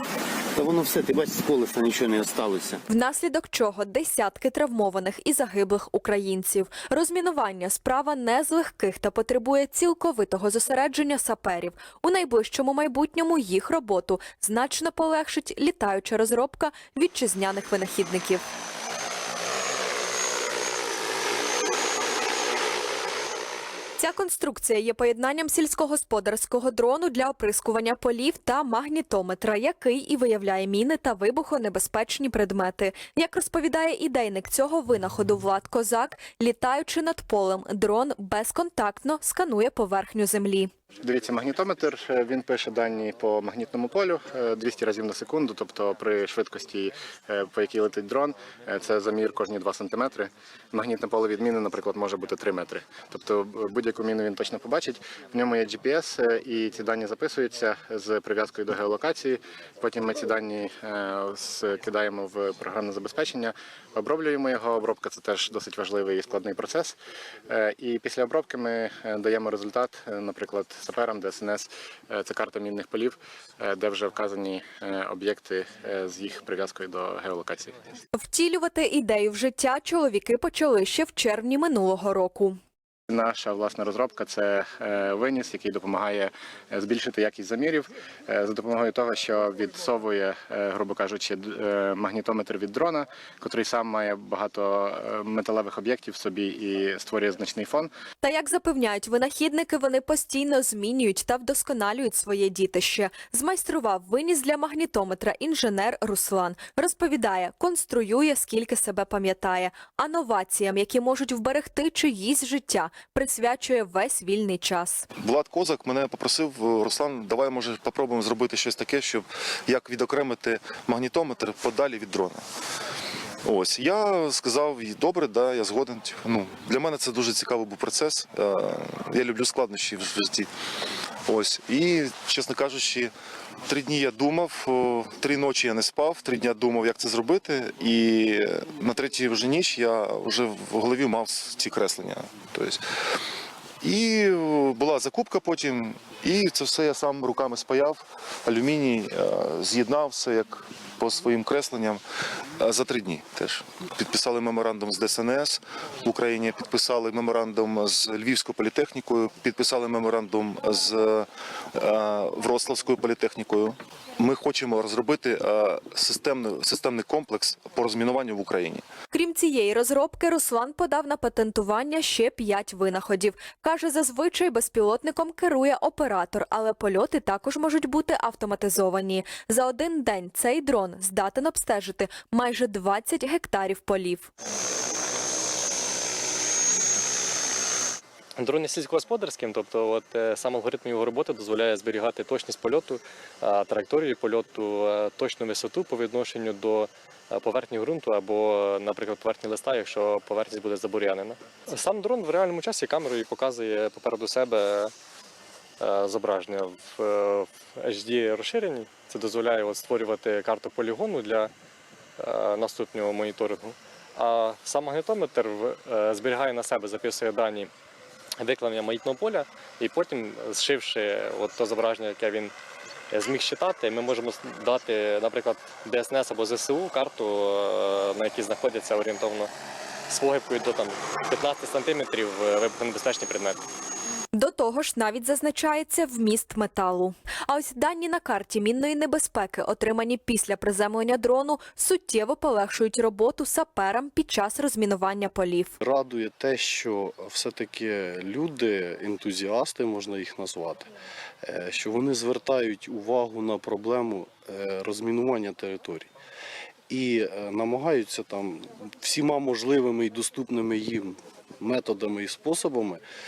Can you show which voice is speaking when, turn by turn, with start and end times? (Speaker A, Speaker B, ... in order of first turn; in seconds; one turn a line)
Speaker A: 0.6-2.8
Speaker B: 2.9-18.5
Speaker B: 24.0-40.7
Speaker C: 41.0-67.0
Speaker C: 67.5-77.8
Speaker B: 78.2-82.6
Speaker C: 83.1-97.9
Speaker B: 98.2-115.1
Speaker D: 115.2-122.5
Speaker D: 123.4-130.5
Speaker D: 131.3-133.1
Speaker D: 133.7-142.8
Speaker D: 143.8-152.0
Speaker D: 152.6-168.8
Speaker B: 169.1-184.3
Speaker E: 188.4-204.9
Speaker E: 205.8-211.5
Speaker E: 212.2-217.7
Speaker E: 218.4-222.5
Speaker E: 223.1-229.5
Speaker E: 230.1-233.6
Speaker B: 234.3-245.7
Speaker F: 245.8-250.9
Speaker F: 251.4-256.1
Speaker F: 256.9-263.0